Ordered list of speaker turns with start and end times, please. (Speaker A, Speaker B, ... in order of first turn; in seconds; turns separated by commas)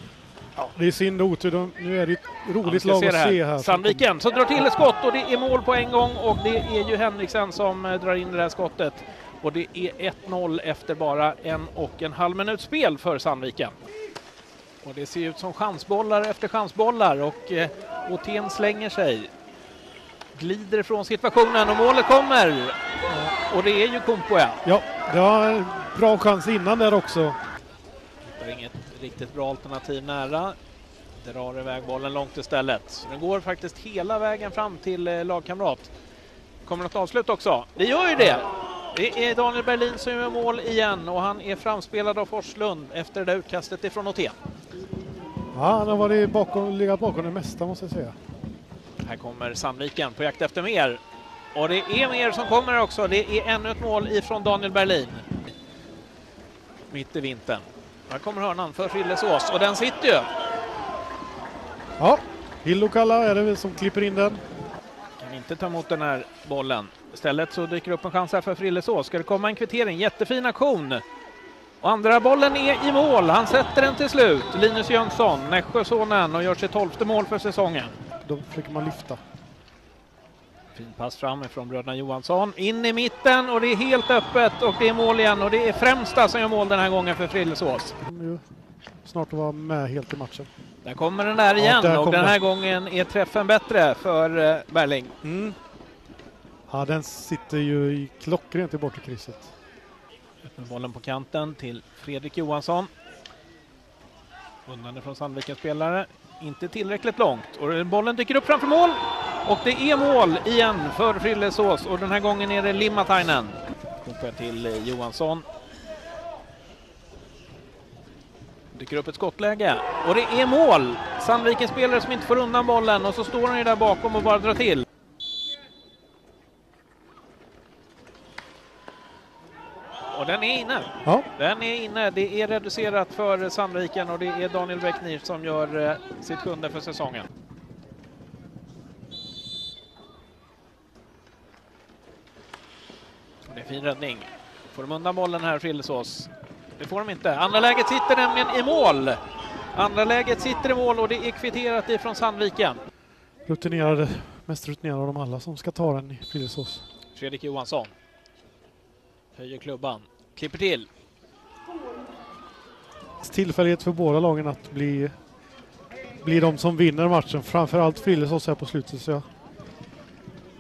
Speaker A: 0.6-4.1, Speaker B: 2.6-13.8, Speaker B: 14.8-19.3, Speaker B: 20.3-22.8, Speaker A: 23.1-23.4, Speaker B: 23.5-24.6, Speaker A: 24.6-27.4, Speaker B: 28.3-30.6, Speaker B: 31.2-35.9, Speaker B: 36.6-44.3, Speaker A: 45.5-48.2, Speaker B: 49.0-51.0, Speaker B: 51.5-55.5, Speaker B: 56.9-60.3, Speaker A: 62.0-64.4, Speaker B: 65.2-71.0, Speaker B: 71.8-77.9, Speaker A: 78.2-79.2, Speaker B: 80.8-88.0, Speaker A: 88.0-88.4, Speaker A: 89.0-90.5, Speaker B: 90.8-95.2, Speaker A: 91.6-92.4, Speaker A: 95.2-95.6, Speaker A: 96.7-99.5, Speaker B: 100.5-102.9, Speaker B: 104.7-115.5, Speaker B: 118.7-124.8, Speaker B: 130.1-137.3, Speaker B: 143.5-149.2, Speaker B: 149.7-152.8, Speaker A: 153.5-156.8, Speaker B: 157.1-157.9, Speaker B: 159.3-160.9, Speaker A: 163.2-165.1, Speaker A: 166.2-169.3